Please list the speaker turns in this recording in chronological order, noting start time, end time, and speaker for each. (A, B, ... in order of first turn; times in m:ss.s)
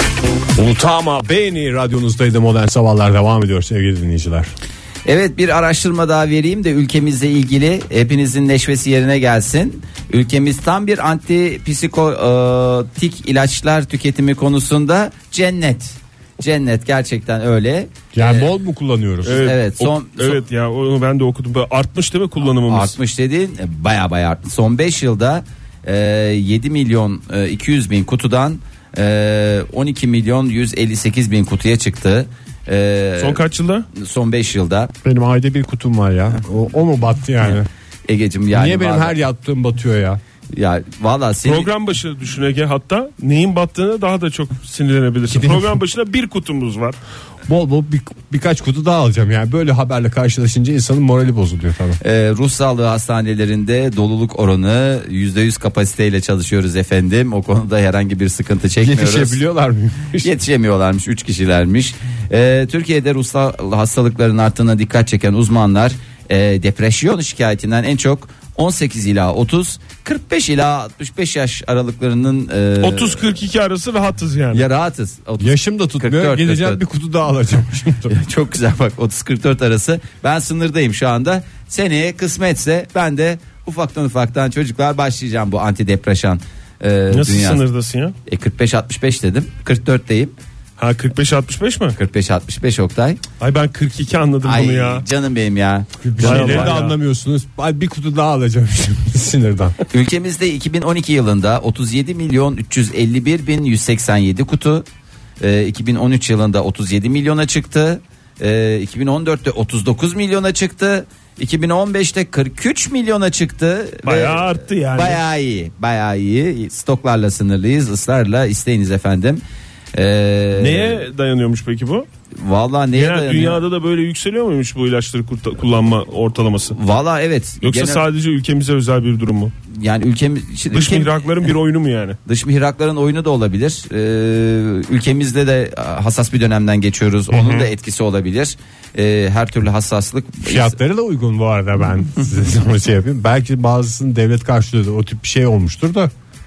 0:00.6-0:04.5 A
0:05.0-0:18.5 B
0:18.1-0:19.5 A
0:19.2-0:20.4 B
0:19.2-0:23.0 C
0:22.6-0:33.4 B
0:33.2-0:33.9 C
0:33.9-0:34.9 B
0:35.0-0:37.7 A
0:37.4-0:39.2 B
0:38.5-0:40.2 A
0:40.5-0:41.7 B
0:41.4-0:47.0 C
0:45.3-0:45.7 A
0:47.5-0:52.0 A
0:52.0-0:59.4 B
0:58.8-1:00.3 A
1:00.2-1:13.3 B
1:12.8-1:14.7 C
1:14.5-1:16.8 B
1:15.4-1:18.2 A
1:18.1-1:27.6 B
1:27.1-1:28.2 C
1:28.3-1:30.4 B
1:30.8-1:32.0 C
1:32.0-1:33.2 B
1:33.4-1:35.0 C
1:34.4-1:36.8 B
1:36.0-1:39.8 A
1:36.2-1:37.0 C
1:39.9-1:44.9 B
1:45.4-1:59.4 B
1:54.0-1:55.2 C
1:59.9-2:01.0 B
2:00.6-2:02.1 C
2:02.4-2:03.6 B
2:03.0-2:06.8 C
2:06.7-2:08.0 B
2:07.6-2:09.5 C
2:09.7-2:11.2 B
2:10.7-2:12.2 C
2:12.2-2:20.8 B
2:17.3-2:17.7 A
2:20.4-2:26.1 A